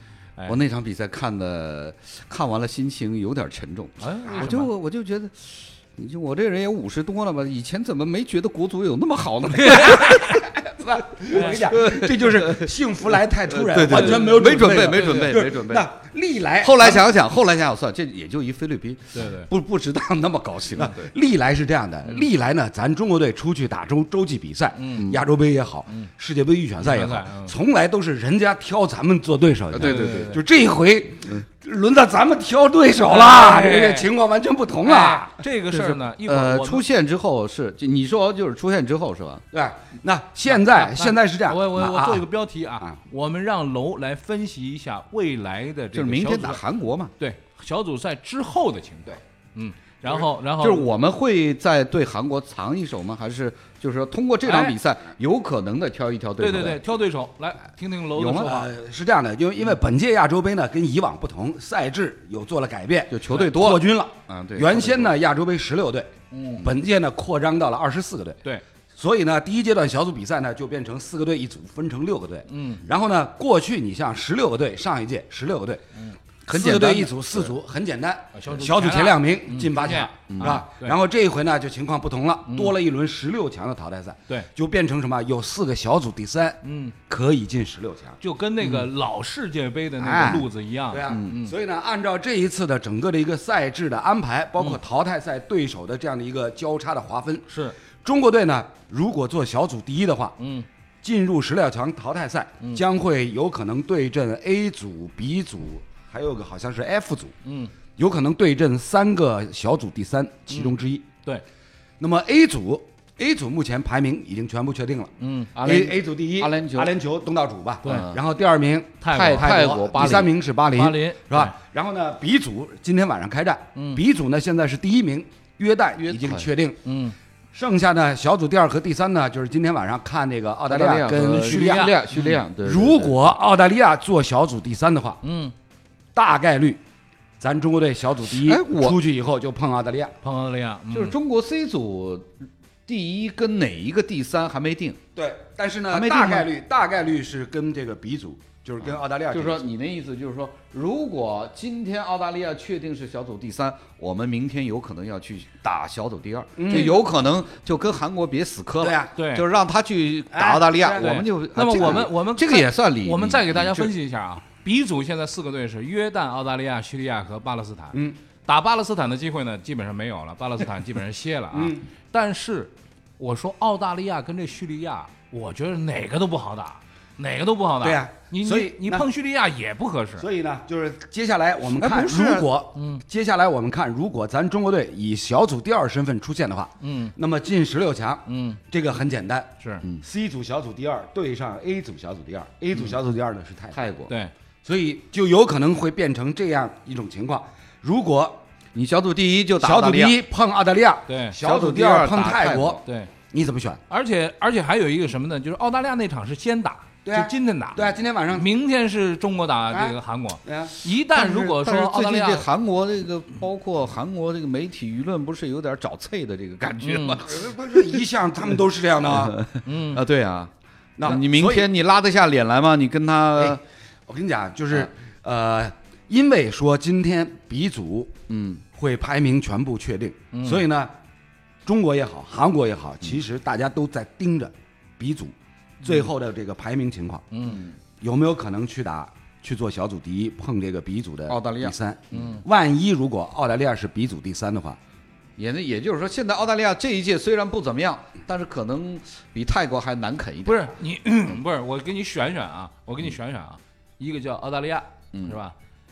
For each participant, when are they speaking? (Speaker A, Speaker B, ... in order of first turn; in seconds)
Speaker A: 0.5-10.4, 11.2-12.7, 13.4-15.9, 16.6-21.1, 29.7-30.4, 35.7-39.4, 45.9-47.1, 50.6-56.8, 58.1-58.5, 63.1-65.1, 76.5-77.5, 80.3-80.6, 88.6-88.8, 90.1-90.4, 115.5-116.9, 117.8-118.2, 119.1-120.3, 126.0-126.5, 130.7-133.2, 138.3-139.0, 140.9-142.3, 142.9-145.0, 145.9-146.5, 149.3-163.9, 181.8-182.5, 193.7-194.1, 198.7-200.2, 201.4-202.8, 211.0-217.5, 219.1-220.5, 221.0-223.6, 228.3-228.6, 237.4-237.8, 241.3-241.7, 245.4-250.7, 255.1-255.4
Speaker B: 4.0-4.7, 9.5-10.4, 11.3-11.7, 13.9-15.3, 19.1-19.5, 24.8-25.1, 26.8-27.5, 29.8-30.4, 33.0-34.1, 34.8-36.8, 40.5-46.6, 47.2-50.9, 54.4-54.8, 56.4-58.7, 66.3-66.6, 72.5-72.8, 78.3-81.0, 82.5-82.7, 86.6-86.9, 88.2-91.5, 97.5-97.8, 100.4-100.7, 107.4-107.7, 110.5-111.4, 115.2-115.5, 117.8-118.1, 119.0-121.5, 123.7-124.0, 126.8-127.1, 131.4-132.4, 135.2-135.5, 140.2-141.2, 159.1-159.4, 161.0-180.2, 182.7-183.0, 186.8-187.1, 188.3-188.6, 189.6-189.8, 201.1-201.4, 202.8-203.1, 203.9-212.5, 216.8-217.2, 219.6-220.0, 230.3-230.6, 237.3-237.6, 242.1-242.4, 250.4-255.5
Speaker C: 10.6-17.0, 20.8-35.4, 39.5-42.3, 58.3-68.4, 69.0-75.8, 76.5-88.2, 90.0-97.5, 98.0-100.3, 101.0-107.3, 108.0-111.0, 112.0-126.8, 127.5-132.0, 132.6-135.2, 136.1-136.8, 137.4-140.2, 145.2-149.6, 156.6-157.0, 158.8-159.1, 160.3-161.1, 167.9-168.2, 171.5-171.9, 177.8-179.1, 180.2-193.8, 194.6-198.4, 199.6-203.8, 207.0-208.5, 209.7-210.7, 217.3-219.4, 221.0-221.7, 223.4-228.2, 228.7-230.9, 231.7-237.3, 238.0-244.8